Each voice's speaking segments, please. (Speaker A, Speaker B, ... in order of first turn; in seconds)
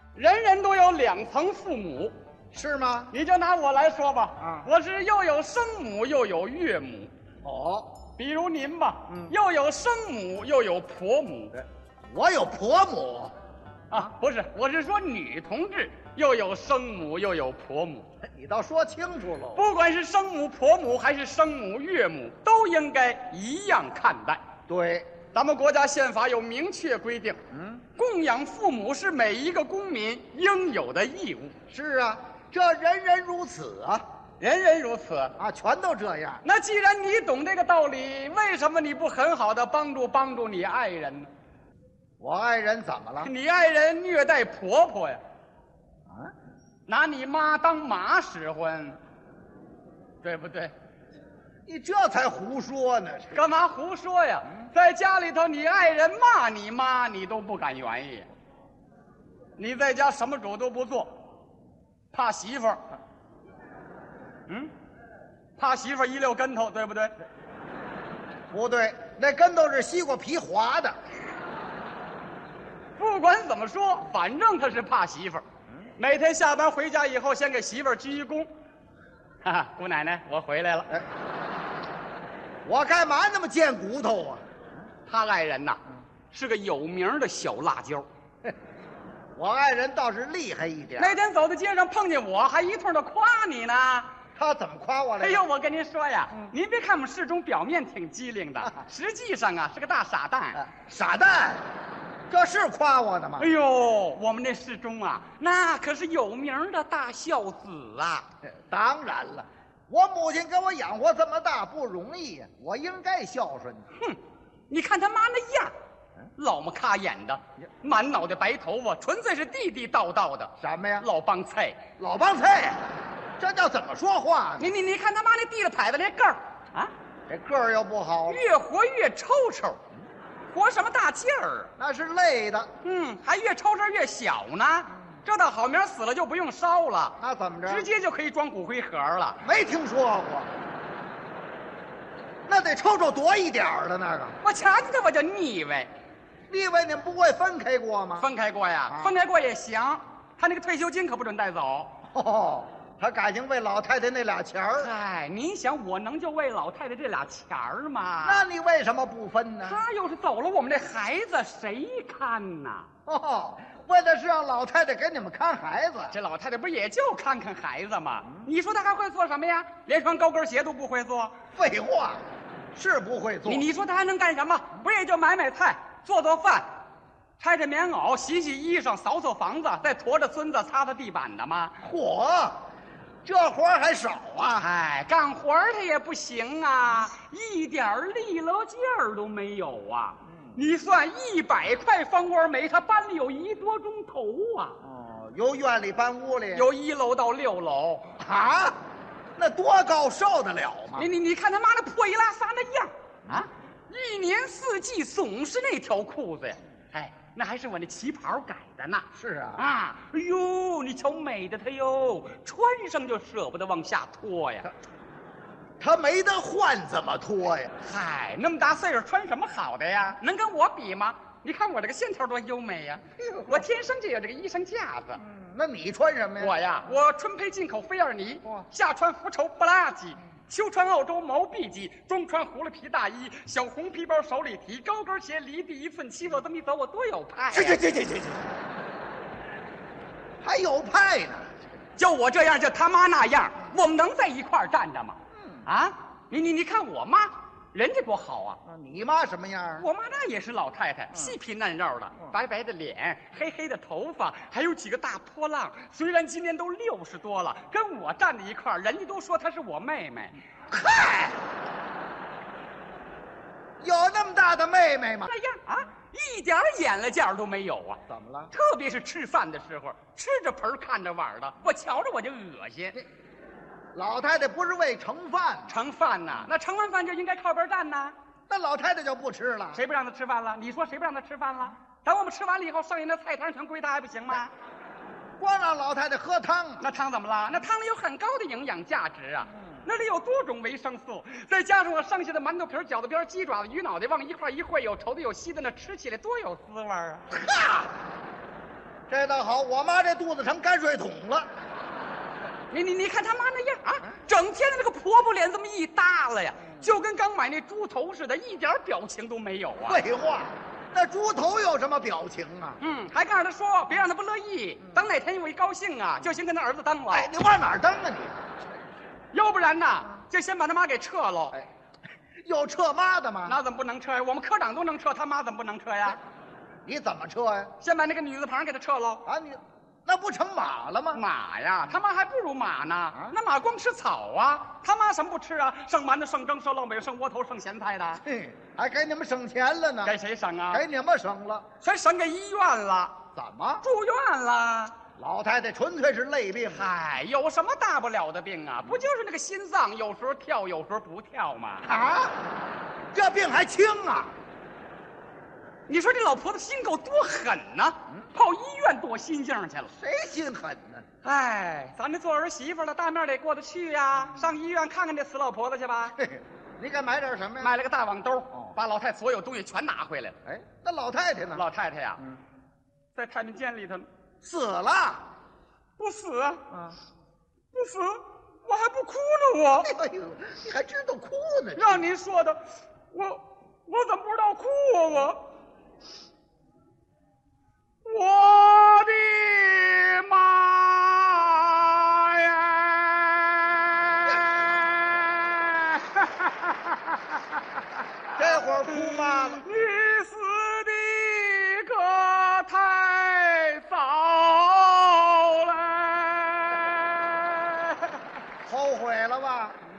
Speaker A: 0.1-2.1, 3.1-7.1, 8.2-11.6, 13.9-18.1, 19.6-24.4, 25.3-27.4, 27.9-31.5, 34.4-35.4, 36.4-41.3, 43.2-45.2, 46.9-49.0, 50.2-50.7, 53.3-58.3, 59.6-61.2, 62.1-62.8, 65.6-67.1, 73.0-75.4, 76.0-78.5, 79.4-80.9, 85.0-88.0, 91.0-94.1, 95.2-100.6, 103.4-108.3, 113.9-115.7, 116.4-121.8, 124.6-126.9, 128.3-129.8, 130.5-131.7, 132.8-139.4, 144.4-145.9, 148.2-151.9, 154.7-158.4, 159.6-162.9, 166.1-171.3, 173.4-176.7, 177.4-181.8, 184.6-194.8, 196.5-198.2, 201.0-214.7, 217.8-225.2, 226.4-237.9, 242.0-248.6, 249.8-260.4, 265.2-273.0, 275.7-278.1, 279.7-284.5, 286.8-297.4, 302.7-310.0, 312.8-317.3, 319.3-321.6, 323.4-326.2, 327.8-329.2, 331.1-338.2, 340.0-340.8, 341.8-343.2, 343.8-344.9, 346.7-351.9, 355.9-359.9, 361.2-366.1, 367.6-370.4, 371.5-372.2, 373.1-374.1, 376.0-376.8, 377.7-379.9, 381.7-385.4, 388.0-408.2
Speaker B: 2.5-3.1, 4.4-4.7, 7.4-7.9, 12.1-13.3, 18.2-19.7, 24.7-25.1, 27.5-27.8, 31.7-34.0, 35.4-36.4, 42.2-43.3, 51.6-53.5, 68.5-71.0, 82.6-84.4, 89.3-91.2, 94.3-95.4, 100.5-101.6, 102.3-103.5, 108.6-113.9, 120.6-121.1, 122.0-124.7, 127.3-128.4, 131.8-132.7, 137.2-137.9, 139.4-140.5, 142.4-144.4, 146.5-148.3, 148.9-149.1, 152.1-154.9, 158.2-159.8, 163.1-166.1, 171.5-172.2, 172.7-173.7, 181.8-182.6, 183.2-184.7, 194.8-196.7, 198.2-198.8, 199.3-201.1, 209.1-209.6, 215.8-217.7, 223.2-223.6, 225.2-226.6, 237.5-238.5, 240.4-241.5, 245.3-245.7, 248.6-249.9, 260.7-261.4, 263.8-265.3, 268.1-268.5, 273.9-275.7, 278.5-279.8, 285.4-286.9, 297.3-297.9, 299.1-301.5, 309.8-312.8, 317.1-318.5, 322.4-323.6, 326.8-327.7, 329.2-331.2, 338.2-340.1, 340.7-341.6, 343.3-343.8, 345.2-346.9, 351.8-352.5, 353.1-354.3, 359.9-361.1, 366.2-367.7, 370.4-371.6, 374.4-375.2, 379.8-382.1, 398.3-399.6, 408.6-409.8